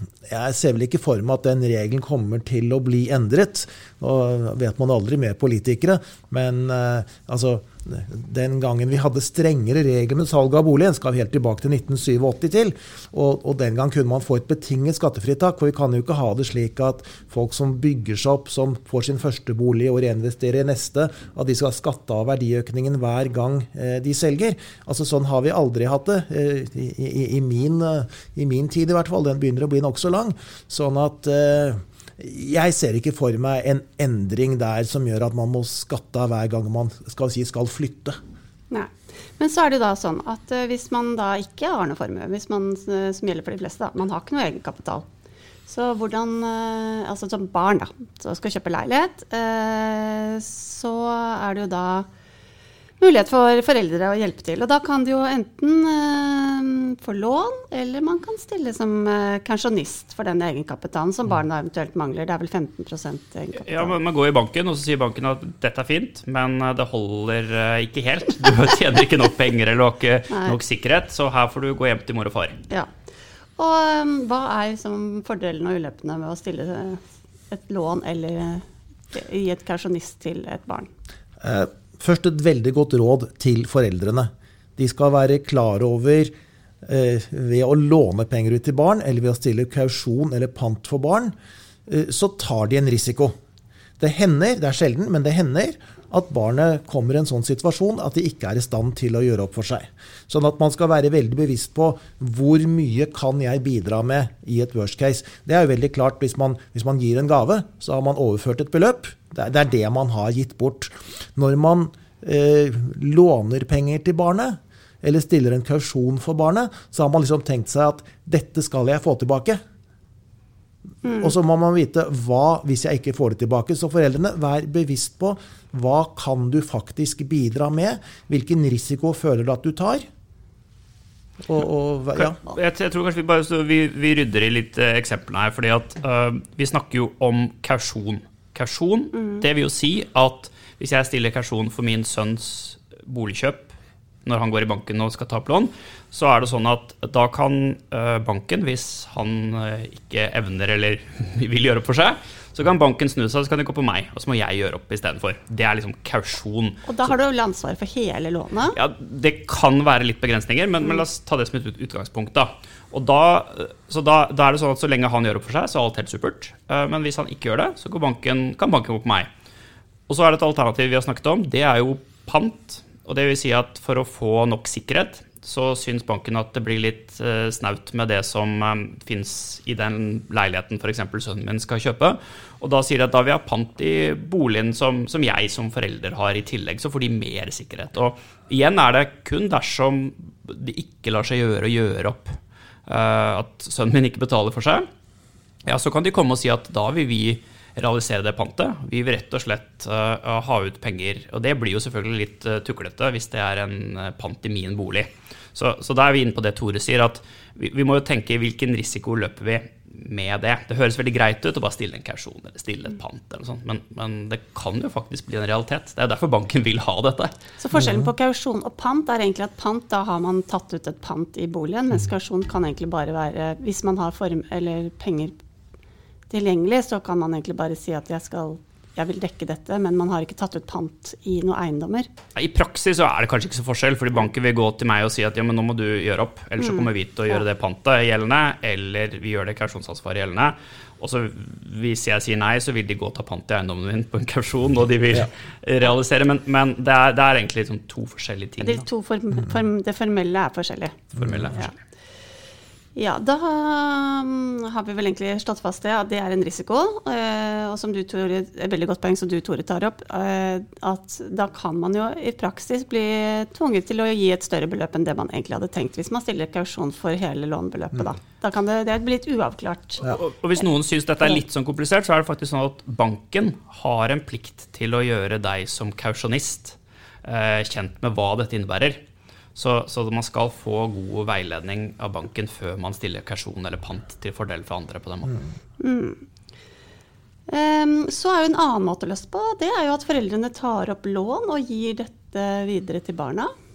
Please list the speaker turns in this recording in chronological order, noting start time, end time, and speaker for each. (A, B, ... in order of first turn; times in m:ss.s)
0:00.3-0:38.2 A
0:38.7-0:45.0 B
0:45.7-0:52.1 B
0:53.0-1:03.9 B
1:03.6-1:12.6 C
1:10.3-1:10.6 B
1:13.6-1:20.9 B
1:21.4-1:26.3 A
1:26.8-1:31.3 A
1:31.9-1:33.3 A
1:34.0-1:59.6 A
2:01.0-2:01.3 B
2:01.1-2:10.0 A
2:11.4-2:12.4 A
2:12.2-2:23.7 C
2:24.2-2:36.9 C
2:36.8-2:38.8 B
2:38.7-2:49.3 C
2:50.1-3:14.9 C
3:15.6-3:37.4 C
3:37.6-3:45.3 B
3:46.3-3:52.1 B
3:52.4-4:08.8 C
3:56.6-3:56.9 B
4:08.6-4:11.7 B
4:11.2-4:11.7 C
4:13.0-4:30.2 B
4:30.0-4:39.0 C
4:39.5-4:45.4 C
4:45.8-4:46.2 B
4:47.5-4:53.5 B